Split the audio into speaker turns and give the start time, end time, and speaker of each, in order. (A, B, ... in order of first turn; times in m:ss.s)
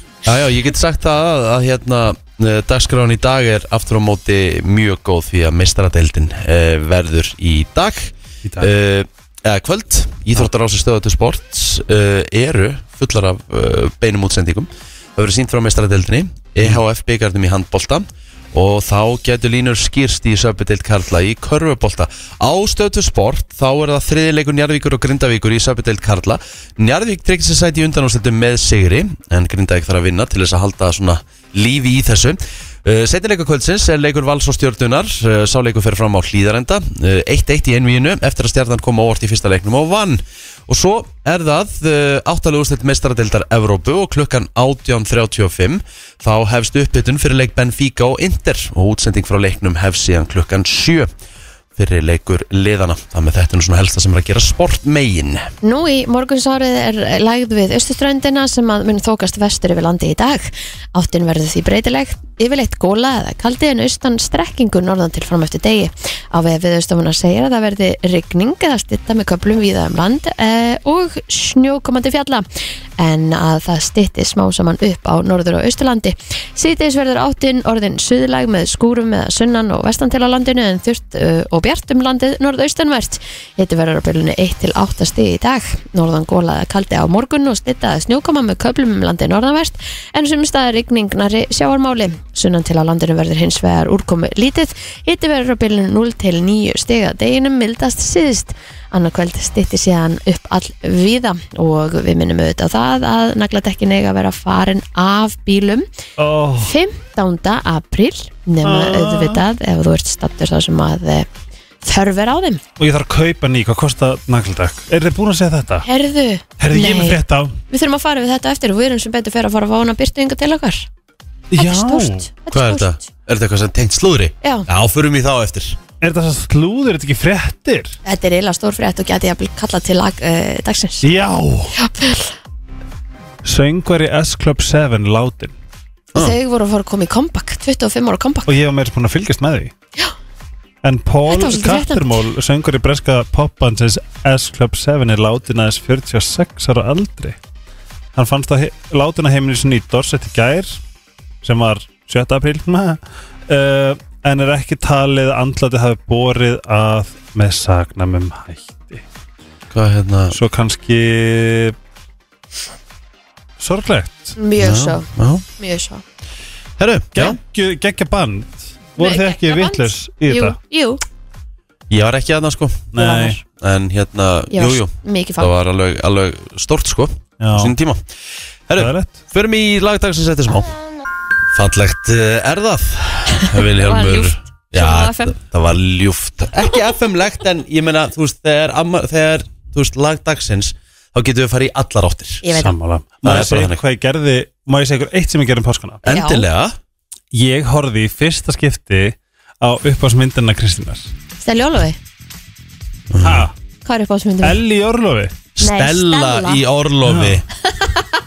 0:00.2-0:51.1 A
0:08.4-0:08.7 B
0:51.8-0:55.5 A
0:55.6-1:12.4 C
1:13.0-1:45.9 C
1:46.2-1:46.7 B
1:46.6-1:51.3 C
1:48.6-1:49.4 B
1:51.8-1:52.6 C
1:52.8-1:55.8 B
1:55.8-2:00.9 C
1:56.6-1:57.6 B
2:01.5-2:02.3 B
2:01.6-2:03.0 C
2:02.5-2:05.8 A
2:04.4-2:04.7 C
2:06.0-2:08.0 B
2:08.0-2:11.0 C
2:11.0-2:11.7 B
2:11.8-2:12.4 C
2:13.4-2:15.5 B
2:16.2-2:18.5 C
2:18.5-2:19.7 B
2:20.8-2:27.4 B
2:21.3-2:22.2 C
2:28.1-2:30.8 B
2:31.4-2:39.0 B
2:39.7-2:40.4 A
2:40.3-2:41.7 B
2:43.6-2:44.4 B
2:44.4-2:46.0 C
2:44.6-2:45.4 A
2:46.8-2:47.4 A
2:47.1-2:50.6 B
2:49.0-2:51.0 C
2:51.9-2:52.9 A
2:52.9-2:53.4 B
2:53.0-2:53.4 C
2:53.6-2:58.0 A
2:54.5-2:55.5 C
2:57.4-2:57.7 B
2:58.7-3:00.7 A
2:58.8-2:59.2 B
3:01.5-3:12.4 A
3:03.4-3:05.4 C
3:12.4-3:12.7 C
3:12.6-3:16.0 B
3:13.2-3:13.8 A
3:16.0-3:16.8 A
3:16.0-3:16.4 C
3:17.3-3:21.1 B
3:21.4-3:22.0 C
3:23.1-3:23.5 A
3:23.2-3:23.5 B
3:23.8-3:24.6 C
3:24.4-3:25.3 B
3:25.6-3:27.4 A
3:25.6-3:26.6 C
3:27.0-3:27.4 B